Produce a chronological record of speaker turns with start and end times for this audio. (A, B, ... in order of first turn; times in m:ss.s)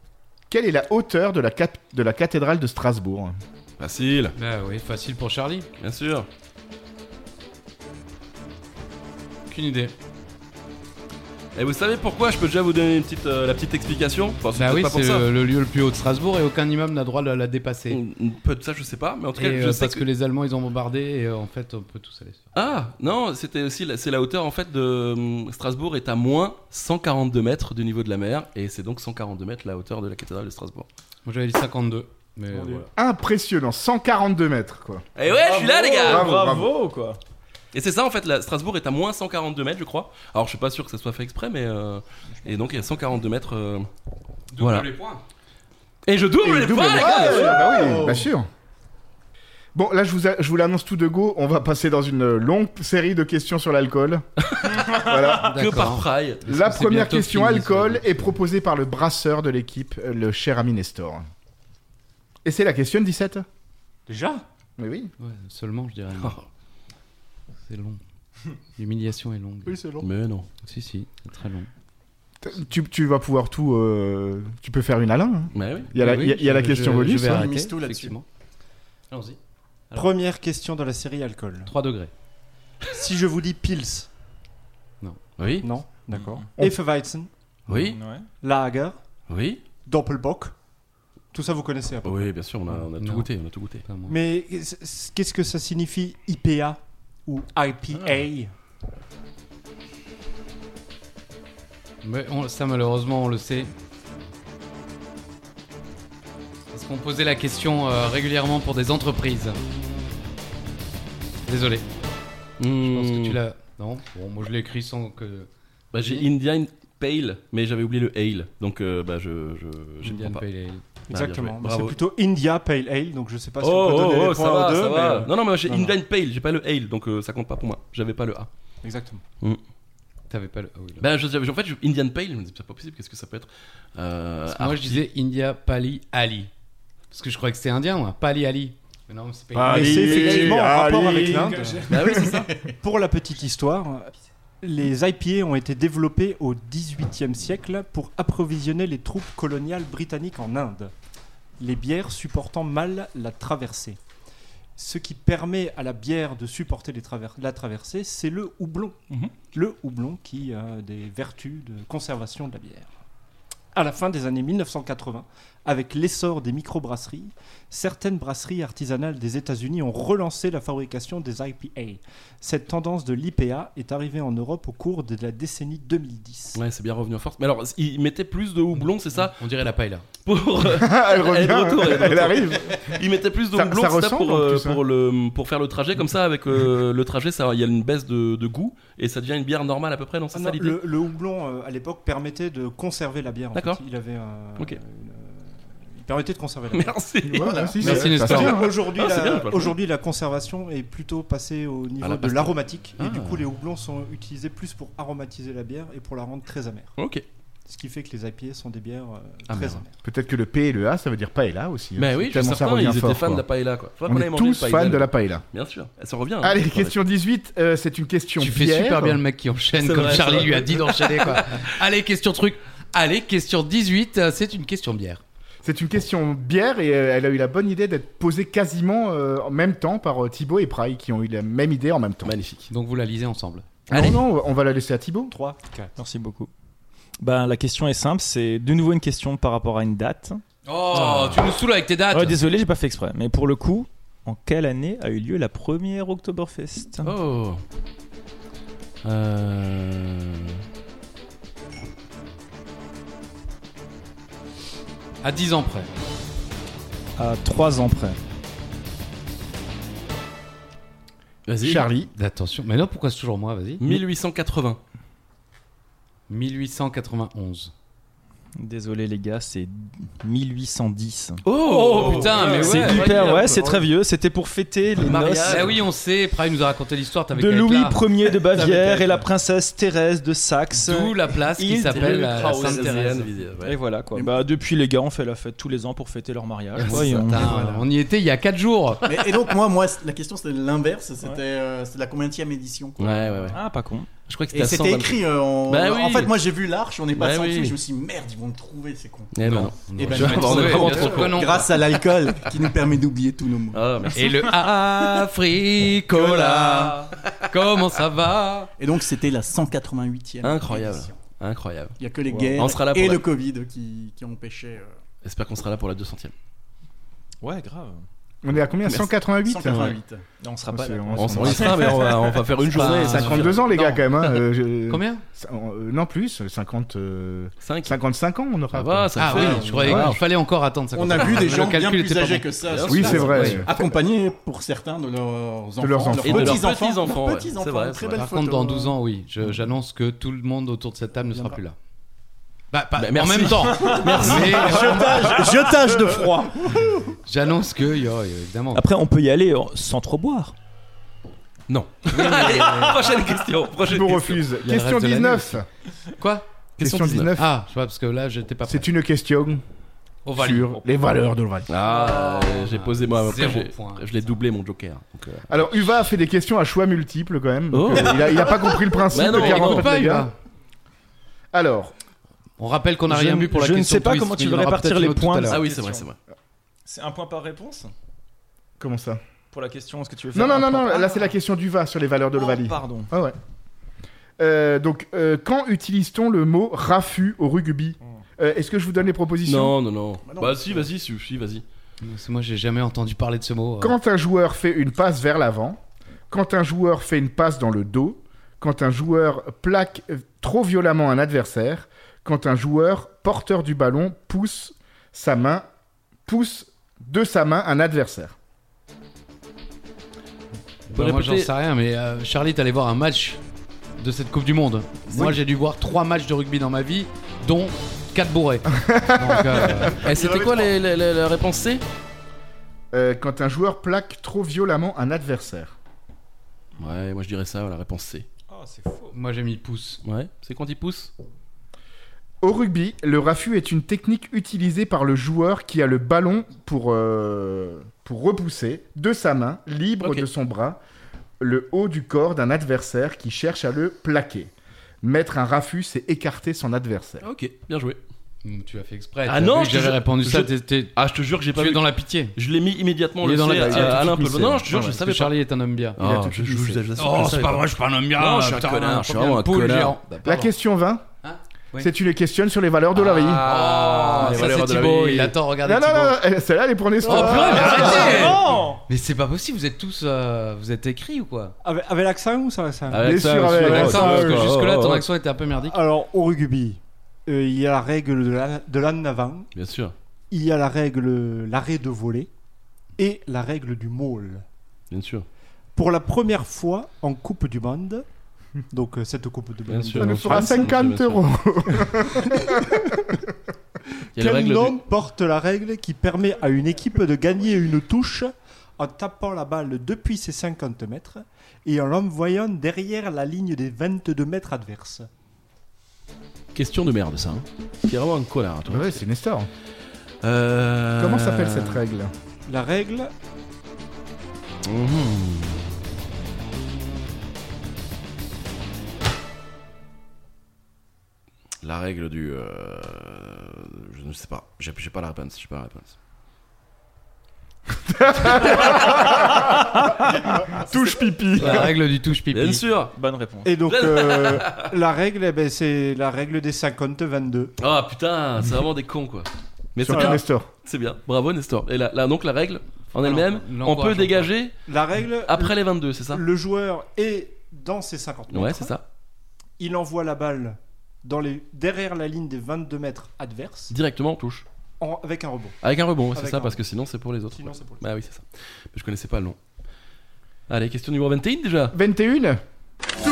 0:00.5-0:03.4 A
0:03.8-0:04.3 B
0:04.4-0:05.7 C
0:05.8-0:06.3 B
0:09.5-0:09.9 C
0:11.5-0:15.3 B
0:14.5-0:18.0 C
0:17.9-0:20.0 B
0:19.4-0:22.5 C
0:22.5-0:30.9 B
0:31.2-0:32.9 C
0:32.5-0:32.8 D
0:33.0-0:35.0 A
0:35.2-0:36.4 B
0:35.2-0:37.2 D
0:36.0-0:36.7 A
0:37.7-0:43.9 B
0:44.5-0:45.2 C
0:44.6-0:44.9 B
0:46.0-0:47.7 B
0:46.4-0:48.5 A
0:47.0-0:48.3 E
0:49.7-0:54.2 A
0:54.5-0:54.8 B
0:54.9-0:55.5 A
0:55.4-0:58.3 C
0:55.4-0:57.0 B
0:56.4-1:01.3 A
1:02.4-1:03.4 A
1:04.1-1:04.4 F
1:04.8-1:05.1 A
1:05.2-1:06.4 C
1:06.2-1:06.4 B
1:07.7-1:08.0 C
1:08.8-1:09.8 C
1:09.6-1:10.1 E
1:10.0-1:10.5 B
1:10.6-1:11.7 C
1:12.4-1:17.5 A
1:15.5-1:15.9 B
1:15.9-1:18.2 C
1:17.2-1:18.2 E
1:19.1-1:19.4 C
1:19.9-1:21.7 F
1:21.7-1:22.1 C
1:22.9-1:24.1 F
1:25.4-1:26.3 B
1:25.6-1:27.3 F
1:27.7-1:28.0 B
1:27.7-1:28.3 D
1:28.4-1:29.0 F
1:29.3-1:29.6 B
1:29.8-1:30.5 F
1:31.3-1:32.3 F
1:32.0-1:33.8 B
1:32.8-1:33.3 C
1:33.8-1:34.2 C
1:34.1-1:38.5 F
1:42.0-1:43.7 C
1:46.7-1:49.6 C
1:51.4-1:51.8 C
1:52.6-1:53.4 B
1:52.8-1:56.2 C
1:55.9-2:00.4 B
2:00.0-2:00.8 C
2:01.1-2:06.0 F
2:01.1-2:02.0 B
2:03.6-2:08.5 B
2:08.8-2:09.2 F
2:10.3-2:11.0 C
2:11.0-2:15.0 B
2:14.5-2:16.5 C
2:17.1-2:20.2 C
2:19.5-2:22.3 A
2:19.7-2:30.9 F
2:21.9-2:22.5 B
2:31.6-2:34.0 F
2:34.8-2:39.0 F
2:39.5-2:42.9 F
2:43.7-2:56.6 F
2:56.5-2:59.4 B
2:58.8-3:00.1 C
3:00.2-3:10.8 B
3:00.7-3:03.0 A
3:03.5-3:04.8 A
3:10.3-3:17.0 F
3:13.5-3:13.8 B
3:16.7-3:17.7 B
3:17.2-3:18.8 A
3:17.3-3:18.1 E
3:17.8-3:26.9 F
3:17.8-3:18.7 C
3:18.2-3:19.8 B
3:22.0-3:23.4 B
3:27.0-3:27.2 B
3:27.6-3:29.9 F
3:29.5-3:29.8 B
3:30.0-3:33.4 A
3:32.0-3:36.9 B
3:34.0-3:35.4 A
3:36.4-3:39.2 A
3:38.4-3:45.2 C
3:39.8-3:41.4 B
3:39.8-3:40.8 D
3:45.6-3:52.3 A
3:52.2-3:52.7 B
3:52.7-3:53.8 C
3:53.9-3:55.3 A
3:53.9-3:54.2 D
3:55.3-3:55.9 F
3:55.9-3:56.5 D
3:57.2-4:00.4 D
4:00.6-4:02.4 C
4:00.9-4:01.4 D
4:02.1-4:07.1 D
4:07.0-4:07.6 B
4:09.0-4:10.6 B
4:15.2-4:15.9 C
4:17.2-4:18.2 D
4:21.4-4:21.9 B
4:21.6-4:22.1 A
4:22.1-4:24.0 C
4:23.8-4:24.8 B
4:26.3-4:27.7 C
4:28.6-4:35.8 D
4:31.4-4:33.8 B
4:31.7-4:33.6 C
4:35.0-4:35.8 B
4:35.4-4:38.1 C
4:37.3-4:43.0 D
4:38.5-4:39.2 E
4:40.7-4:43.3 C
4:41.9-4:43.8 B
4:43.6-4:47.8 D
4:46.7-4:49.0 C
4:49.0-4:53.5 E
4:53.0-4:53.6 B
4:53.5-4:54.1 D
4:54.3-4:56.3 B
4:54.5-4:59.3 E
4:57.2-4:57.8 B
4:59.3-5:01.5 B
4:59.4-5:02.0 C
4:59.9-5:04.1 E
5:03.7-5:04.3 B
5:04.1-5:08.7 C
5:06.1-5:07.0 E
5:08.8-5:11.2 E
5:10.4-5:12.0 B
5:12.0-5:14.9 E
5:12.3-5:12.6 D
5:12.6-5:13.2 B
5:15.2-5:16.3 B
5:17.4-5:18.0 D
5:18.4-5:20.0 A
5:18.8-5:19.1 B
5:19.4-5:20.2 E
5:19.6-5:20.0 B
5:20.4-5:22.4 D
5:20.7-5:21.8 A
5:21.1-5:23.9 B
5:22.7-5:24.0 C
5:22.8-5:30.2 A
5:24.9-5:25.2 C
5:27.6-5:28.0 B
5:28.7-5:30.2 B
5:29.2-5:32.5 C
5:29.4-5:29.7 E
5:30.9-5:39.0 E
5:32.7-5:33.6 B
5:32.9-5:33.8 A
5:33.0-5:33.6 C
5:35.8-5:36.7 A
5:36.2-5:38.2 B
5:38.1-5:41.8 C
5:42.7-5:45.7 C
5:43.0-5:44.9 B
5:44.0-5:47.1 E
5:47.2-5:48.9 C
5:48.7-5:50.5 D
5:51.7-5:54.4 B
5:52.1-5:53.2 C
5:53.8-5:55.6 A
5:54.6-5:55.6 C
5:56.2-5:56.4 C
5:56.8-5:57.3 B
5:56.8-5:57.5 A
5:57.3-5:58.9 C
5:58.7-5:59.6 A
6:00.2-6:00.8 C
6:00.4-6:01.7 A
6:01.7-6:05.9 B
6:01.8-6:04.0 C
6:05.5-6:10.3 A
6:07.7-6:08.6 B
6:09.1-6:09.9 B
6:09.1-6:10.3 C
6:11.5-6:11.9 A
6:12.6-6:15.6 C
6:13.1-6:16.1 D
6:15.5-6:16.2 B
6:16.8-6:17.9 D
6:18.8-6:19.2 A
6:19.5-6:21.3 D
6:20.3-6:23.4 A
6:22.3-6:23.1 D
6:24.4-6:29.8 A
6:29.4-6:31.6 B
6:30.2-6:30.9 E
6:32.0-6:34.0 C
6:33.8-6:45.6 A
6:46.2-6:48.3 A
6:50.9-6:53.4 C
6:50.9-6:51.5 B
6:54.0-7:00.0 C
6:58.8-6:59.9 A
7:00.0-7:01.8 B
7:00.2-7:00.6 E
7:02.9-7:05.7 A
7:06.8-7:08.2 B
7:08.5-7:09.1 D
7:09.1-7:10.0 C
7:10.0-7:11.1 B
7:12.4-7:20.8 A
7:21.4-7:24.5 A
7:25.0-7:27.2 A
7:27.2-7:28.0 B
7:28.4-7:31.0 C
7:29.2-7:35.3 B
7:31.5-7:32.3 C
7:33.2-7:36.3 C
7:33.5-7:34.1 A
7:36.0-7:39.9 B
7:36.1-7:36.8 A
7:37.0-7:40.5 C
7:40.2-7:41.1 A
7:41.2-7:41.9 C
7:41.8-7:43.4 A
7:43.0-7:45.3 B
7:43.0-7:46.2 C
7:45.6-7:48.3 A
7:47.0-7:51.5 C
7:47.6-7:48.8 D
7:47.6-7:48.3 B
7:48.1-7:48.6 F
7:51.6-7:54.4 F
7:52.9-7:55.0 B
7:53.0-7:54.2 A
7:53.6-7:55.8 C
7:55.6-7:59.5 F
7:59.5-7:59.9 B
8:00.3-8:02.3 F
8:03.0-8:04.4 F
8:04.9-8:05.2 B
8:05.7-8:08.0 F
8:08.7-8:10.8 F
8:09.7-8:11.3 B
8:10.0-8:12.8 A
8:12.5-8:13.0 F
8:14.1-8:14.8 B
8:14.2-8:25.1 F
8:26.5-8:29.0 B
8:28.7-8:29.5 A
8:30.2-8:31.8 B
8:31.0-8:32.1 A
8:32.4-8:33.1 F
8:34.6-8:35.8 B
8:41.6-8:45.9 B
8:47.8-8:49.5 A
8:50.5-8:51.7 A
8:51.4-8:52.6 C
8:52.3-8:52.9 B
8:53.0-8:53.6 D
8:53.4-8:57.5 F
8:53.6-8:54.7 B
8:57.6-9:04.6 B
8:59.8-9:00.5 A
8:59.9-9:00.2 F
9:03.0-9:04.3 C
9:04.6-9:08.7 F
9:05.2-9:06.2 B
9:08.3-9:08.8 B
9:09.6-9:13.7 F
9:13.7-9:14.4 B
9:14.8-9:15.6 F
9:15.6-9:19.4 B
9:16.1-9:16.6 F
9:17.3-9:17.9 F
9:20.5-9:21.8 B
9:21.7-9:22.4 A